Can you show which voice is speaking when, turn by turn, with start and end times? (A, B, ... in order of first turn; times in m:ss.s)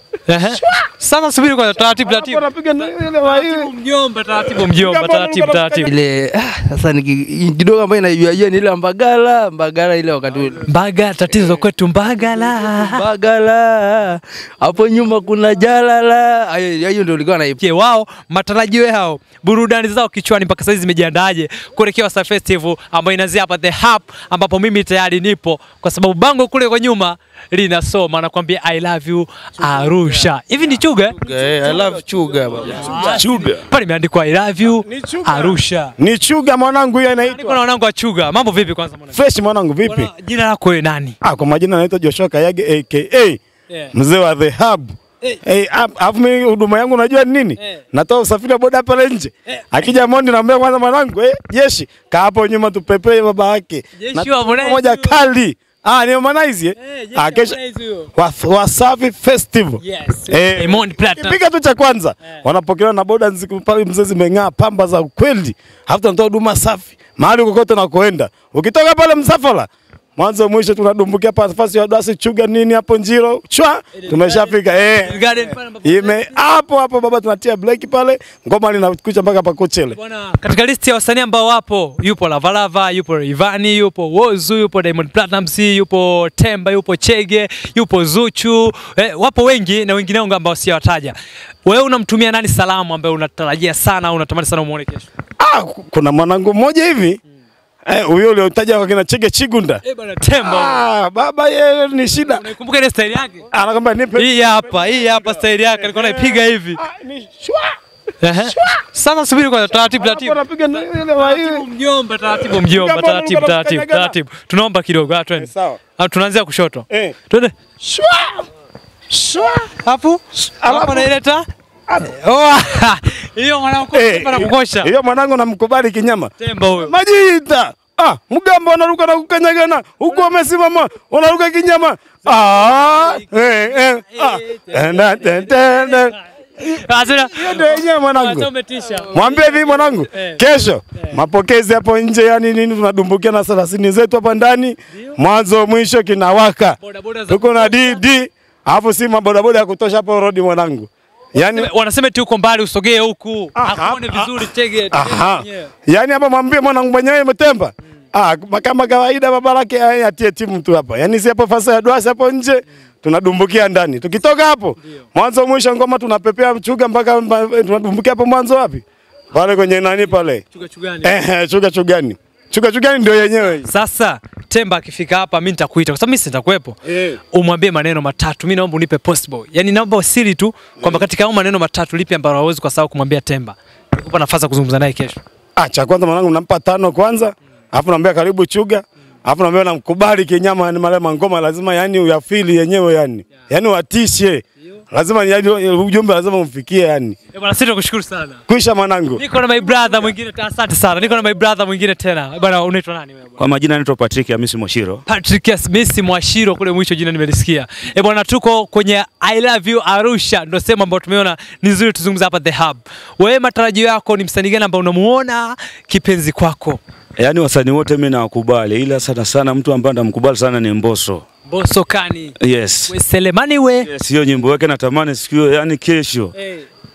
0:00.3-0:05.9 A
0:00.4-0:00.9 B
0:01.8-0:03.7 B
0:04.4-0:05.9 B
0:05.9-0:10.7 C
0:10.6-0:13.0 A
0:12.6-0:17.6 C
0:17.6-0:31.2 A
0:31.2-0:33.2 C
0:31.4-0:33.2 B
0:32.8-0:35.9 A
0:33.1-0:33.6 D
0:34.8-0:37.6 B
0:37.3-0:39.2 A
0:39.1-0:40.1 B
0:39.8-0:41.2 A
0:41.2-0:43.4 B
0:43.9-0:57.6 B
0:54.0-0:55.2 A
0:56.8-0:58.1 A
0:58.1-1:20.0 B
0:59.8-1:01.4 A
1:14.0-1:16.4 A
1:19.9-1:31.1 A
1:31.6-1:35.1 A
1:35.4-1:37.2 B
1:37.8-1:39.8 B
1:39.8-1:40.8 A
1:40.4-1:42.4 B
1:42.1-1:43.4 A
1:43.5-1:47.7 B
1:44.1-1:46.8 A
1:48.2-1:57.5 A
1:48.4-1:48.8 B
1:49.9-1:51.6 B
1:52.3-1:54.2 B
1:55.4-1:55.8 B
1:56.9-1:57.2 B
1:57.8-1:58.4 B
1:59.1-1:59.7 B
1:59.7-2:01.4 A
2:00.6-2:01.1 B
2:01.9-2:02.2 B
2:02.0-2:04.9 A
2:03.9-2:06.3 B
2:06.4-2:06.9 A
2:06.8-2:18.5 B
2:12.2-2:20.4 A
2:19.1-2:26.8 B
2:26.8-2:28.0 A
2:27.3-2:31.7 B
2:31.4-2:35.7 A
2:33.6-2:50.4 B
2:50.5-2:51.1 A
2:51.0-2:53.7 B
2:53.6-2:56.8 A
2:56.9-2:57.2 B
2:57.3-3:05.2 A
3:05.6-3:17.2 B
3:17.3-3:18.4 A
3:18.5-3:19.2 B
3:19.2-3:23.4 A
3:23.4-3:25.0 D
3:25.1-3:36.8 A
3:37.2-3:41.2 D
3:41.5-3:42.4 A
3:42.4-3:42.9 D
3:42.9-3:43.9 A
3:43.8-3:46.3 D
3:46.4-3:46.7 A